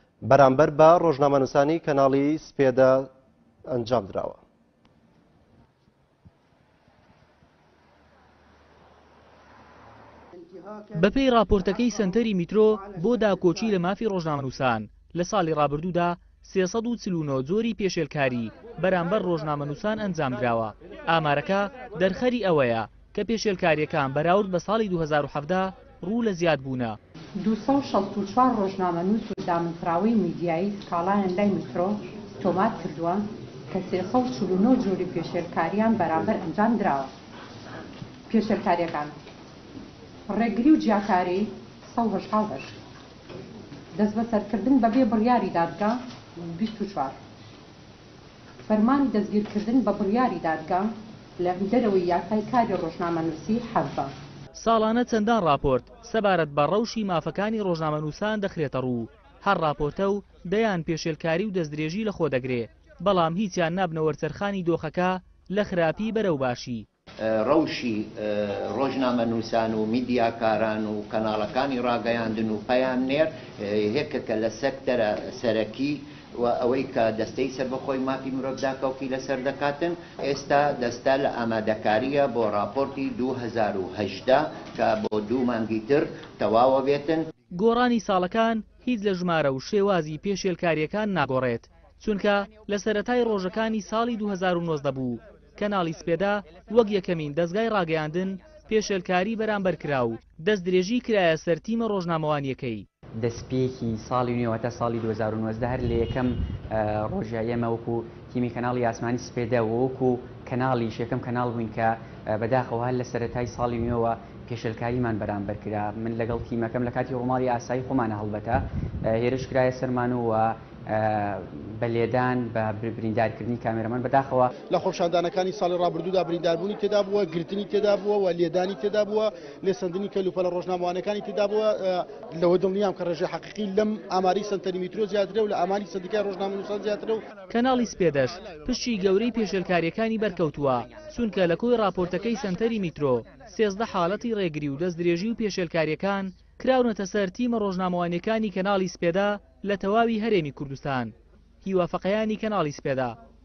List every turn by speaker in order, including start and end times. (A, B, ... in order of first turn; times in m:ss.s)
0:00.2-0:03.1 A
0:03.7-0:04.4 A
0:11.0-0:27.0 B
0:27.4-0:37.1 C
0:38.3-0:39.2 C
0:40.3-0:42.8 C
0:43.9-0:47.2 C
0:48.7-0:54.1 C
0:54.6-1:06.9 B
1:07.2-1:27.3 D
1:27.5-1:42.8 B
1:43.2-2:04.5 E
2:04.6-2:17.2 F
2:17.5-2:33.2 B